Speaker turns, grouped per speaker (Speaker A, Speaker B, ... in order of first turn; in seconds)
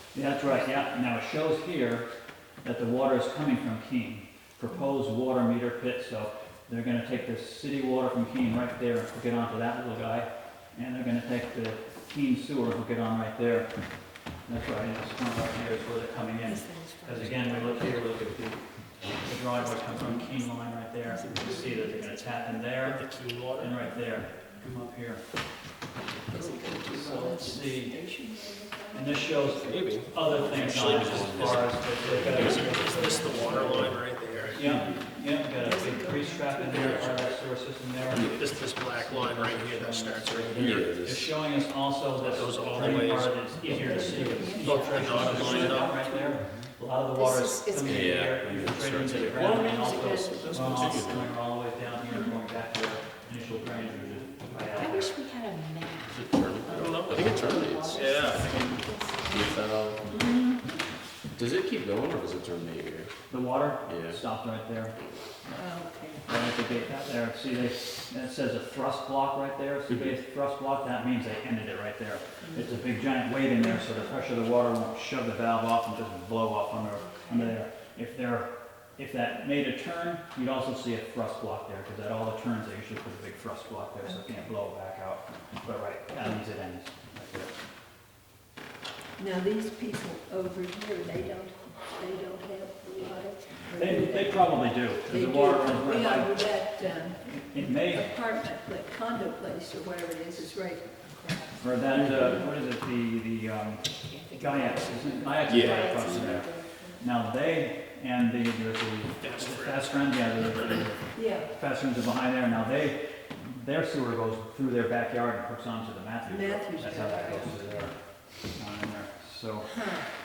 Speaker A: 0.1-2.1, 2.6-13.7, 14.4-25.2, 26.9-28.0, 28.9-33.9, 34.5-55.1, 63.3-65.0, 66.2-87.5, 93.7-98.1, 101.6-118.0, 118.5-119.9
Speaker B: 0.5-0.8, 16.4-17.8, 21.1-22.1, 26.3-30.8, 33.0-33.6, 34.6-35.0, 35.5-37.0, 43.7-46.4, 65.5-66.4, 89.2-101.0, 111.1-111.5, 116.2-117.9
Speaker C: 22.7-23.8, 30.8-34.7, 38.1-40.9, 42.2-46.0, 56.7-58.5, 109.2-110.0
Speaker D: 29.6-32.8, 33.6-33.9, 36.8-37.2, 40.5-41.3, 47.9-51.4, 56.1-58.0, 59.2-60.0, 61.4-63.1, 63.8-64.2, 69.9-70.2
Speaker E: 47.1-48.3, 54.8-59.6, 104.1-107.0